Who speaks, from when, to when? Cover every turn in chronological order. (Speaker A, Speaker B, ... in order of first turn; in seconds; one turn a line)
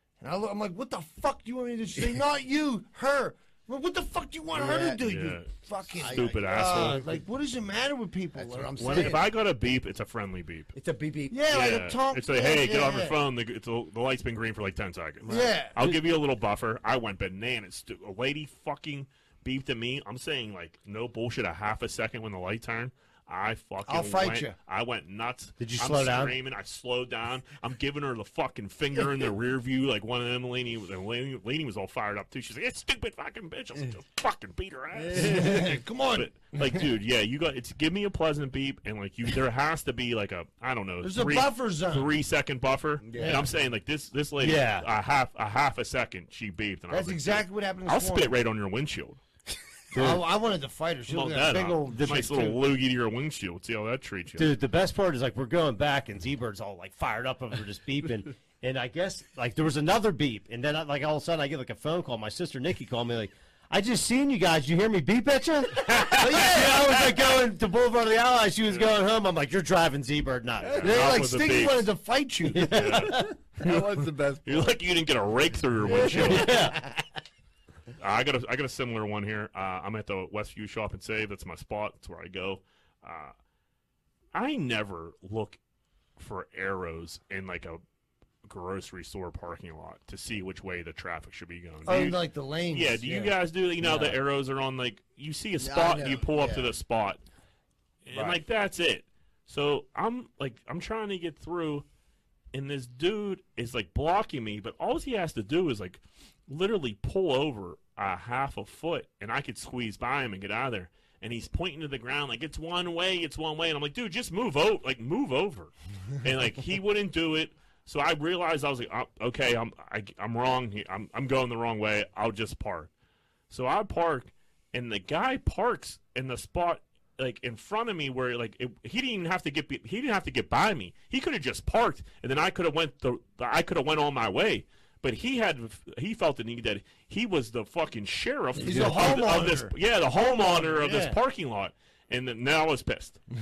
Speaker A: 0.2-9.1
Speaker B: 4.5-5.0
Speaker C: 5.0-7.0
Speaker B: 6.0-7.1
Speaker B: 8.3-9.3
Speaker C: 8.8-10.7
Speaker B: 10.8-11.4
Speaker A: 11.3-13.2
Speaker C: 11.5-49.2
Speaker B: 15.3-15.5
Speaker A: 15.3-15.8
Speaker A: 23.9-24.6
Speaker D: 25.6-26.4
Speaker B: 35.0-35.5
Speaker A: 35.1-36.9
Speaker A: 41.0-42.1
Speaker B: 43.0-43.5
Speaker A: 43.2-43.5
Speaker D: 44.4-44.9
Speaker A: 46.9-48.3
Speaker A: 49.9-52.6
Speaker D: 49.9-50.2
Speaker C: 51.1-54.5
Speaker D: 54.4-71.0
Speaker C: 65.9-66.2
Speaker A: 66.1-67.1
Speaker C: 70.7-71.9
Speaker A: 70.8-73.1
Speaker D: 72.5-73.3
Speaker C: 72.6-76.7
Speaker B: 73.6-74.7
Speaker D: 75.9-76.8
Speaker A: 76.0-76.8
Speaker C: 78.0-83.3
Speaker C: 84.3-85.6
Speaker C: 86.2-87.8
Speaker C: 88.5-97.2
Speaker A: 91.9-93.4
Speaker D: 93.8-94.2
Speaker B: 95.6-96.7
Speaker C: 98.0-101.8
Speaker C: 102.5-122.9
Speaker C: 123.5-143.2
Speaker A: 138.6-141.1
Speaker D: 140.7-141.1